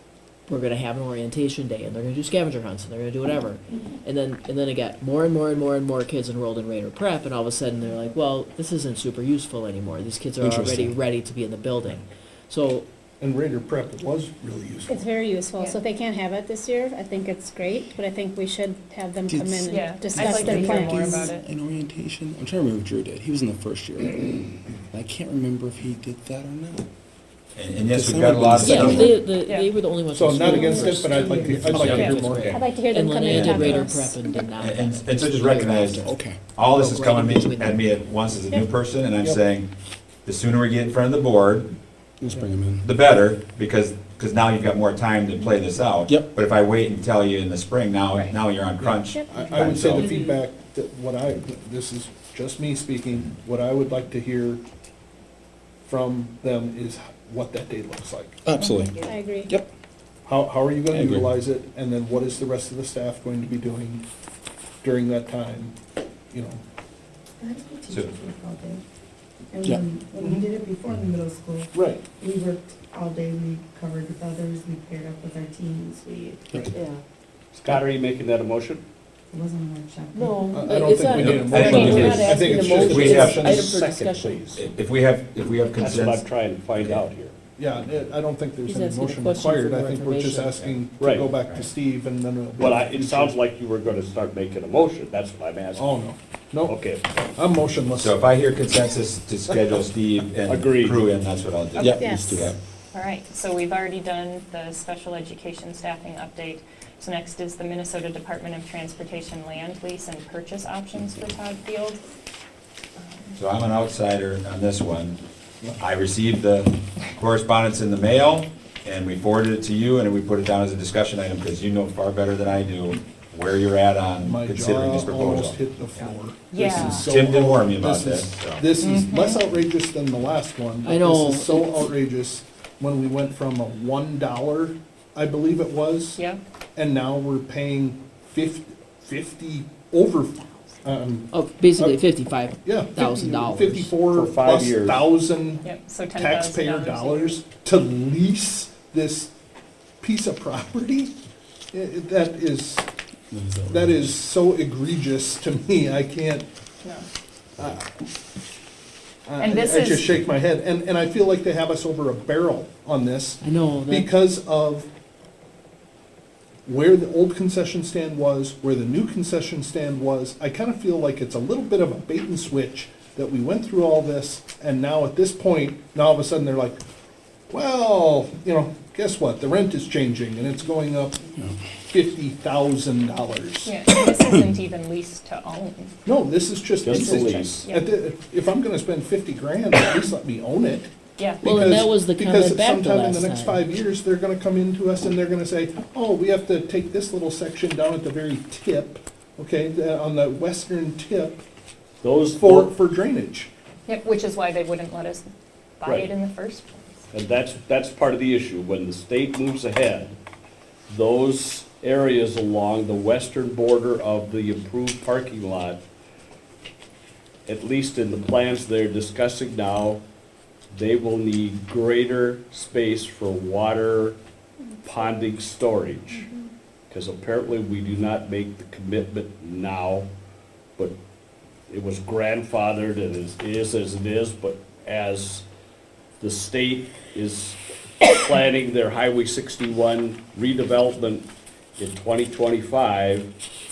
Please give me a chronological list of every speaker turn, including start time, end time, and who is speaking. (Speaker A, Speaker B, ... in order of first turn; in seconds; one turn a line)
Speaker A: 0.5-12.8
Speaker B: 10.4-11.0
Speaker C: 13.2-15.0
Speaker D: 14.9-21.3
Speaker B: 19.3-19.6
Speaker E: 19.7-21.4
Speaker B: 20.5-26.9
Speaker F: 27.5-29.1
Speaker B: 27.9-29.1
Speaker A: 28.6-37.9
Speaker C: 30.1-32.6
Speaker G: 30.4-31.7
Speaker F: 31.8-32.2
Speaker E: 31.8-32.2
Speaker D: 32.5-34.5
Speaker F: 33.2-33.9
Speaker F: 34.6-39.7
Speaker B: 36.0-36.4
Speaker F: 40.2-41.7
Speaker B: 42.2-42.8
Speaker F: 42.8-50.1
Speaker C: 48.8-54.6
Speaker D: 49.1-49.5
Speaker C: 55.9-58.4
Speaker B: 58.4-58.9
Speaker G: 58.6-59.1
Speaker D: 59.0-59.5
Speaker C: 60.2-64.0
Speaker B: 60.9-61.3
Speaker C: 64.8-65.7
Speaker C: 66.3-66.6
Speaker G: 67.4-68.8
Speaker F: 67.9-68.2
Speaker G: 69.5-76.7
Speaker C: 70.2-70.5
Speaker C: 71.7-72.0
Speaker A: 76.7-77.0
Speaker H: 77.5-78.8
Speaker G: 79.3-80.4
Speaker A: 80.1-84.5
Speaker C: 80.5-83.7
Speaker F: 81.2-83.4
Speaker H: 82.2-84.6
Speaker F: 84.5-87.0
Speaker H: 85.8-87.3
Speaker C: 87.6-93.4
Speaker A: 88.6-90.7
Speaker H: 91.0-91.4
Speaker H: 92.5-95.9
Speaker C: 95.8-96.8
Speaker H: 96.6-97.0
Speaker C: 97.3-98.1
Speaker F: 98.0-102.5
Speaker H: 100.5-101.0
Speaker E: 101.7-102.1
Speaker B: 101.8-102.6
Speaker D: 102.0-102.5
Speaker E: 102.9-112.0
Speaker E: 113.0-113.3
Speaker F: 113.3-115.2
Speaker F: 115.8-126.1
Speaker C: 124.2-136.2
Speaker E: 126.5-127.0
Speaker F: 126.9-128.7
Speaker E: 128.8-129.4
Speaker A: 130.8-131.9
Speaker C: 136.8-142.0
Speaker A: 141.3-144.1
Speaker C: 142.6-149.3
Speaker H: 144.1-145.1
Speaker E: 145.6-147.4
Speaker C: 150.0-151.1
Speaker C: 151.7-152.9
Speaker B: 153.3-154.1
Speaker C: 153.7-156.5
Speaker C: 157.6-157.9
Speaker C: 159.2-164.9
Speaker E: 159.4-160.1
Speaker A: 163.4-164.1
Speaker C: 166.7-176.8
Speaker C: 177.5-181.2
Speaker C: 181.9-183.7
Speaker E: 183.6-185.9
Speaker C: 186.0-190.9
Speaker H: 186.8-187.7
Speaker E: 187.5-187.9
Speaker E: 191.2-191.5
Speaker C: 191.4-201.4
Speaker A: 191.4-193.7
Speaker H: 202.0-202.8
Speaker C: 202.4-203.5
Speaker E: 203.9-205.3
Speaker E: 205.8-207.1
Speaker H: 207.1-210.1
Speaker H: 210.9-215.8
Speaker H: 217.5-220.0
Speaker H: 220.7-224.2
Speaker H: 224.8-226.3
Speaker H: 226.9-230.1
Speaker H: 231.7-235.4
Speaker H: 236.2-243.3